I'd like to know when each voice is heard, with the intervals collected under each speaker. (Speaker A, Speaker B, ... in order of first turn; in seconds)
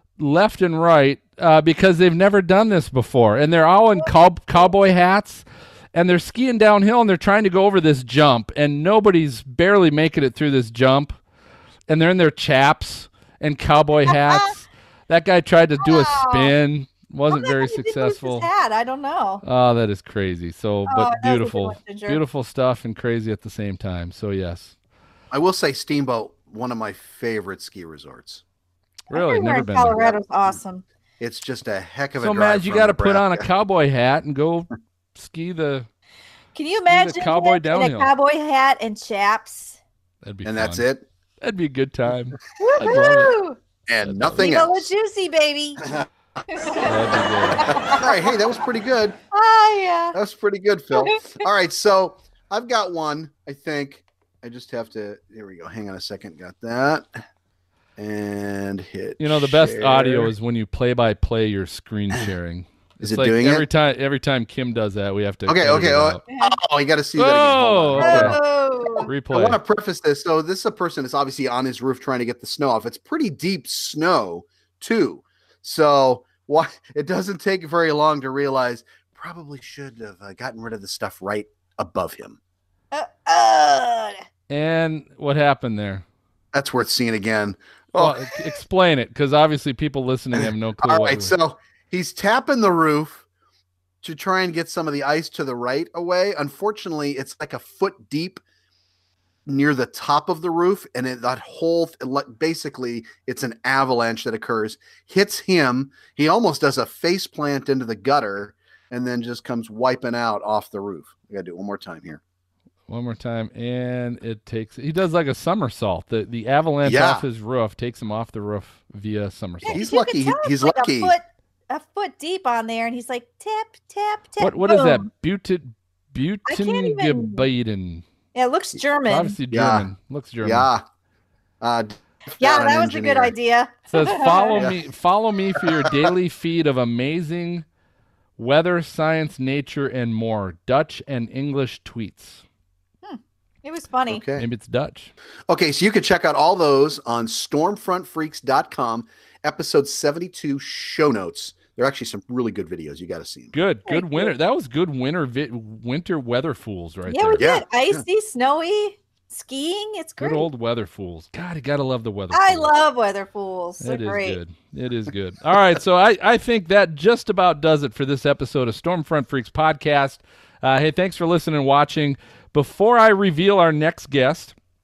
Speaker A: 0.2-11.2, 11.9-18.5, 19.4-24.8, 29.1-30.1, 32.2-35.9, 36.9-38.1, 40.2-40.8, 41.4-43.4, 46.8-48.0, 59.2-66.2, 67.2-68.4, 69.0-69.6, 84.5-86.0, 87.9-91.3, 112.9-119.8, 124.4-128.0, 129.0-130.7, 133.9-137.6, 138.4-142.4, 144.4-145.1, 153.5-157.5, 160.2-162.7, 163.8-174.6
Speaker B: 14.1-14.5, 15.8-16.5, 17.3-19.4, 20.9-22.2, 29.1-30.8, 36.5-39.8, 42.6-43.6, 44.4-45.9, 46.5-48.2, 49.3-50.2, 50.9-51.2, 68.0-69.1, 82.9-84.2, 119.6-125.1, 126.5-127.5, 128.3-129.4, 132.4-134.6, 143.0-144.2, 153.9-154.3, 157.1-160.5, 162.3-164.4
Speaker C: 25.3-28.4, 31.2-33.5, 40.4-41.0, 43.9-44.9, 47.8-49.2, 50.1-57.2, 58.0-60.3, 63.0-63.6, 65.5-68.4, 69.3-82.4, 86.5-88.5, 90.3-93.2, 94.0-98.4, 99.5-112.2, 116.8-117.2, 119.7-121.1, 129.5-129.9, 130.4-130.8, 131.6-133.3, 134.5-134.8, 135.6-136.1, 144.1-144.4, 145.5-153.5, 157.4-158.0